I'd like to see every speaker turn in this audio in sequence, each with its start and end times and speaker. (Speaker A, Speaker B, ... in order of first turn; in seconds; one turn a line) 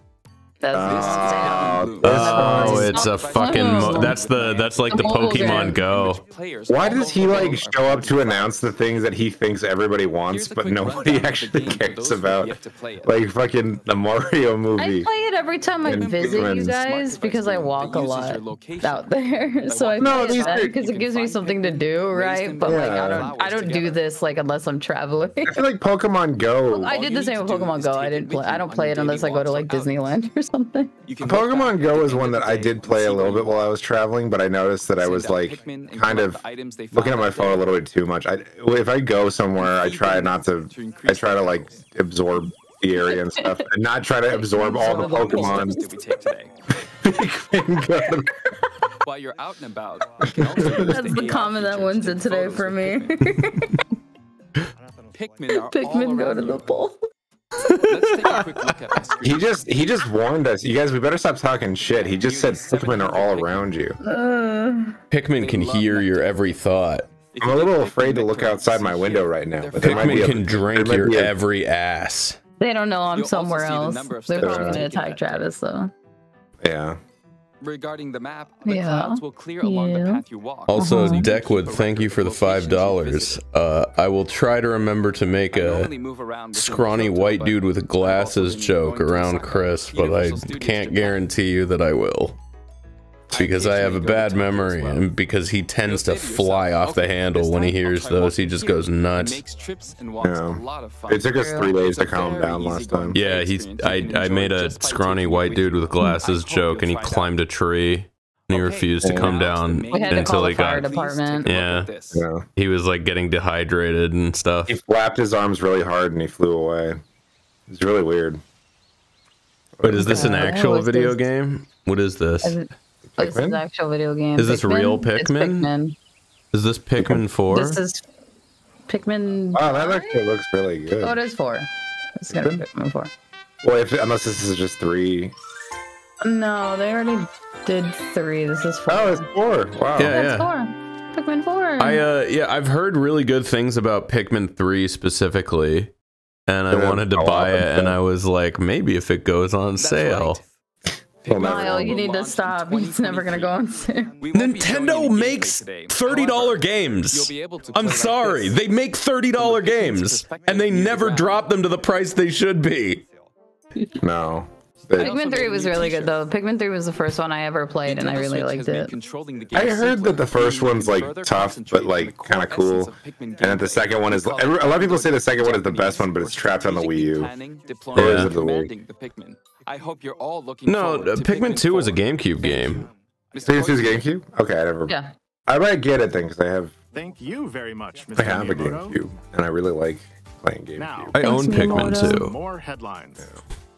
Speaker A: 0.6-5.8
Speaker B: 0.7-2.9
Speaker C: 0.8-8.6
Speaker D: 2.0-6.2
Speaker B: 6.7-15.1
Speaker C: 10.3-13.2
Speaker C: 14.0-14.3
Speaker A: 14.8-25.6
Speaker C: 15.8-19.1
Speaker B: 15.8-16.8
Speaker C: 19.6-24.3
Speaker B: 20.0-20.7
Speaker B: 22.6-23.3
Speaker B: 25.4-27.0
Speaker A: 26.7-30.9
Speaker C: 26.8-30.1
Speaker C: 31.0-33.7
Speaker B: 31.2-45.8
Speaker C: 35.0-37.8
Speaker C: 39.6-41.8
Speaker A: 43.0-43.6
Speaker A: 44.3-45.9
Speaker C: 44.3-46.7
Speaker B: 47.0-48.3
Speaker C: 49.0-53.4
Speaker B: 50.3-50.9
Speaker A: 50.5-53.8
Speaker C: 55.1-56.6
Speaker A: 55.5-57.0
Speaker D: 57.7-58.5
Speaker C: 57.7-60.0
Speaker B: 59.2-64.0
Speaker C: 61.8-63.8
Speaker A: 64.0-65.0
Speaker D: 65.1-67.1
Speaker C: 65.3-66.4
Speaker C: 67.3-70.7
Speaker B: 67.4-71.3
Speaker D: 69.8-72.4
Speaker A: 72.6-75.9
Speaker C: 73.1-75.5
Speaker B: 74.4-74.8
Speaker B: 76.6-77.0
Speaker C: 77.6-83.4
Speaker A: 78.7-80.2
Speaker D: 80.7-85.9
Speaker A: 80.7-81.3
Speaker C: 85.5-91.2
Speaker D: 86.5-92.3
Speaker C: 93.3-95.1
Speaker D: 93.3-99.4
Speaker C: 95.8-107.3
Speaker B: 100.2-103.2
Speaker A: 101.4-101.7
Speaker D: 103.1-110.9
Speaker C: 108.5-112.3
Speaker B: 109.0-109.3
Speaker A: 109.9-111.5
Speaker D: 111.4-111.9
Speaker B: 112.1-112.4
Speaker D: 112.5-114.8
Speaker B: 114.7-117.0
Speaker B: 117.7-118.4
Speaker B: 119.8-120.5
Speaker D: 119.8-122.6
Speaker A: 119.9-121.2
Speaker B: 123.1-123.6
Speaker A: 123.2-125.9
Speaker D: 124.4-125.7
Speaker D: 126.5-127.8
Speaker A: 127.5-128.0
Speaker A: 128.9-130.2
Speaker B: 129.5-131.2
Speaker A: 131.0-133.1
Speaker B: 132.3-132.6
Speaker B: 133.6-135.3
Speaker A: 136.2-139.2
Speaker B: 138.9-140.2
Speaker D: 140.0-140.5
Speaker A: 140.1-142.0
Speaker D: 141.8-145.9
Speaker D: 146.5-150.4
Speaker B: 146.7-148.0
Speaker C: 149.8-150.5
Speaker B: 151.2-152.0
Speaker C: 151.2-158.6
Speaker A: 151.3-154.1
Speaker D: 154.3-163.0
Speaker C: 159.3-161.6
Speaker B: 164.0-165.1
Speaker C: 164.9-166.2
Speaker A: 165.0-168.9
Speaker C: 167.8-184.1
Speaker B: 169.5-177.3
Speaker B: 177.9-178.7
Speaker D: 177.9-178.3
Speaker D: 180.7-182.9
Speaker E: 182.6-183.4
Speaker B: 183.4-186.7
Speaker E: 186.9-189.0
Speaker B: 188.1-191.1
Speaker E: 190.8-193.3
Speaker D: 191.1-192.3
Speaker A: 191.2-192.2